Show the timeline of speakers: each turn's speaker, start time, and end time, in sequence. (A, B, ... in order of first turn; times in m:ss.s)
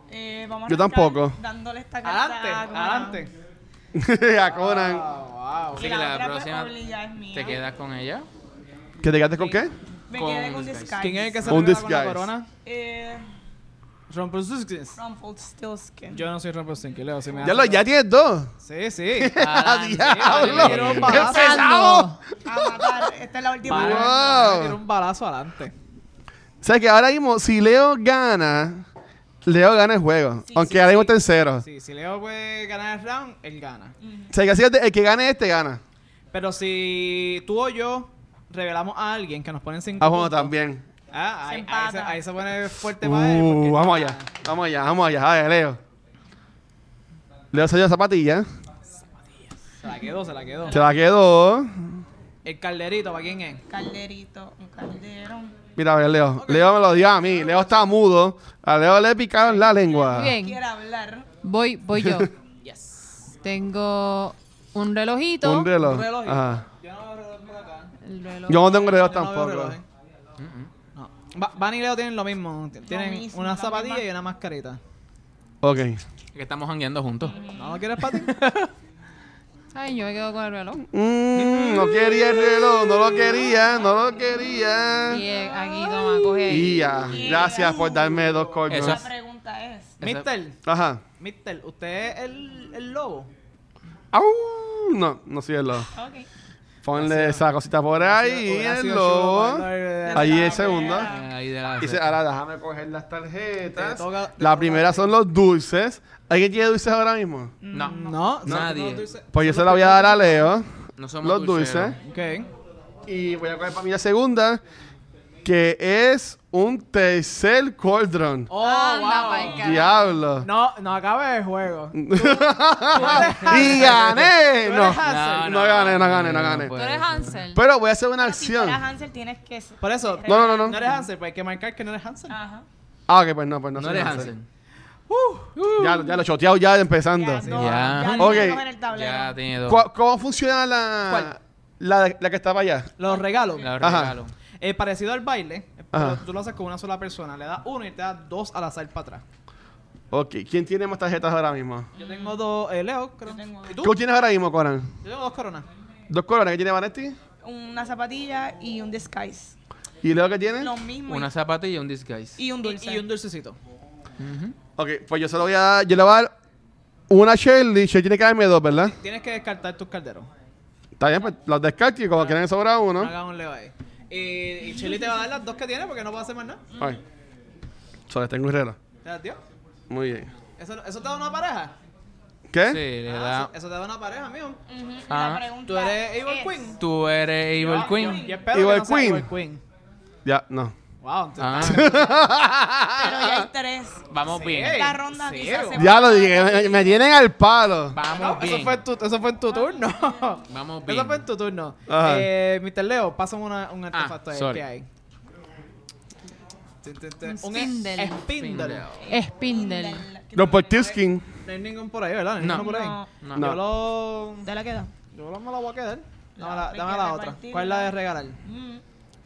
0:00.1-0:03.3 A
0:00.7-0:01.4 B
0:02.0-0:03.3 C
0:03.9-0:05.0 B
0:04.5-0:06.0 C
0:05.7-0:07.6 A
0:05.8-0:06.7 D
0:07.3-0:08.3 D
0:09.0-0:09.7 B
0:10.1-0:11.6 A
0:10.1-0:11.2 D
0:11.0-0:12.5 C
0:11.5-0:12.3 B
0:12.6-0:13.2 A
0:14.1-0:15.0 C
0:15.0-0:16.3 A
0:16.1-0:17.8 C
0:17.4-0:18.5 B
0:18.6-0:19.4 C
0:19.2-0:22.9 B
0:19.4-0:21.5 D
0:19.9-0:21.8 C
0:21.0-0:22.1 E
0:22.4-0:24.5 A
0:23.6-0:24.8 B
0:23.6-0:25.7 C
0:26.6-0:28.8 B
0:29.4-0:31.6 B
0:30.5-0:31.1 A
0:30.7-0:33.9 C
0:34.0-0:34.3 A
0:34.3-0:35.8 B
0:36.3-0:40.5 C
0:40.0-0:40.8 B
0:41.1-0:44.3 C
0:41.4-0:42.2 A
0:43.0-0:45.8 B
0:47.5-0:48.5 B
0:49.6-0:50.9 C
0:50.7-0:52.0 B
0:52.4-0:53.6 C
0:53.7-0:55.6 A
0:55.8-1:00.4 B
0:56.4-0:57.7 C
0:59.7-1:01.3 A
1:00.1-1:00.6 E
1:01.4-1:02.3 E
1:02.0-1:02.3 B
1:02.6-1:03.3 C
1:03.4-1:05.7 E
1:05.4-1:06.6 B
1:05.8-1:07.9 C
1:08.0-1:09.2 E
1:08.5-1:09.8 B
1:08.6-1:09.8 C
1:10.4-1:10.7 D
1:11.0-1:14.8 C
1:12.9-1:14.1 A
1:15.6-1:16.0 B
1:16.3-1:17.4 D
1:17.2-1:17.8 A
1:17.6-1:18.4 C
1:18.1-1:18.7 D
1:19.7-1:20.8 E
1:20.9-1:25.2 B
1:21.4-1:22.1 D
1:23.2-1:24.3 A
1:25.1-1:26.9 E
1:25.3-1:26.4 A
1:26.4-1:29.0 B
1:27.0-1:29.9 A
1:28.7-1:29.0 D
1:30.0-1:30.6 C
1:30.6-1:31.0 B
1:31.2-1:33.3 C
1:34.1-1:35.9 B
1:35.9-1:36.3 A
1:36.8-1:41.1 B
1:36.9-1:37.4 C
1:38.0-1:41.0 C
1:40.0-1:41.3 A
1:41.0-1:42.1 D
1:41.8-1:47.5 B
1:43.7-1:45.1 C
1:47.6-1:48.3 A
1:47.7-1:49.1 D
1:47.8-1:50.5 C
1:49.3-1:50.7 B
1:51.0-1:52.0 D
1:51.2-1:52.0 B
1:52.0-1:52.5 C
1:53.1-1:54.6 B
1:55.4-1:58.5 B
1:58.5-1:59.8 C
1:58.5-2:00.1 E
1:59.6-2:00.5 B
2:00.4-2:05.7 C
2:01.9-2:06.7 B
2:03.1-2:03.5 A
2:05.0-2:07.4 D
2:06.7-2:07.6 E
2:07.5-2:08.8 B
2:08.2-2:11.0 A
2:09.8-2:12.4 C
2:10.2-2:10.8 B
2:12.3-2:12.6 A
2:13.1-2:14.3 B
2:13.7-2:14.4 D
2:15.1-2:15.5 C
2:15.6-2:16.1 D
2:15.8-2:17.5 B
2:17.1-2:19.4 A
2:17.4-2:18.2 C
2:17.5-2:19.8 D
2:18.1-2:18.6 B
2:19.6-2:22.9 B
2:23.0-2:24.0 C
2:23.1-2:23.6 A
2:23.6-2:24.3 D
2:23.8-2:24.2 B
2:24.6-2:29.2 C
2:25.9-2:26.2 B
2:30.1-2:31.9 B
2:31.9-2:32.4 A
2:32.0-2:33.9 C
2:33.2-2:33.9 A
2:33.8-2:34.9 B
2:35.0-2:35.7 C
2:36.1-2:37.2 B
2:37.4-2:39.6 A
2:40.0-2:40.7 B
2:40.6-2:41.3 A
2:41.0-2:42.4 D
2:42.4-2:43.1 A
2:42.6-2:43.6 C
2:44.2-2:44.5 D
2:44.8-2:46.3 B
2:47.1-2:49.0 B
2:48.8-2:50.3 C
2:51.0-2:53.1 B
2:53.0-2:56.6 C
2:58.1-2:58.8 B
2:59.0-2:59.4 C
2:59.9-3:00.3 B
3:00.6-3:01.7 C
3:02.5-3:02.8 B
3:02.7-3:03.5 D
3:03.0-3:04.6 C
3:04.7-3:06.6 A
3:05.1-3:05.4 D
3:05.6-3:06.8 C
3:06.8-3:08.3 D
3:07.6-3:09.6 C
3:07.7-3:08.5 A
3:08.5-3:09.3 B
3:10.2-3:10.7 B
3:11.0-3:12.2 C
3:11.4-3:11.9 D
3:11.6-3:13.5 B
3:12.9-3:17.0 A
3:14.1-3:14.9 D
3:14.2-3:15.9 C
3:15.8-3:18.0 B
3:17.9-3:18.8 D
3:18.1-3:24.9 C
3:19.5-3:20.3 A
3:20.5-3:21.2 D
3:21.9-3:22.3 B
3:23.9-3:24.6 D
3:26.8-3:28.9 C
3:27.2-3:28.2 E
3:28.4-3:29.0 D
3:28.9-3:30.9 A
3:29.1-3:30.1 E
3:30.3-3:31.2 B
3:31.4-3:34.5 C
3:32.4-3:32.7 D
3:32.5-3:33.1 A
3:33.2-3:33.6 D
3:33.3-3:33.6 B
3:34.4-3:34.9 A
3:35.1-3:38.4 C
3:36.4-3:38.8 A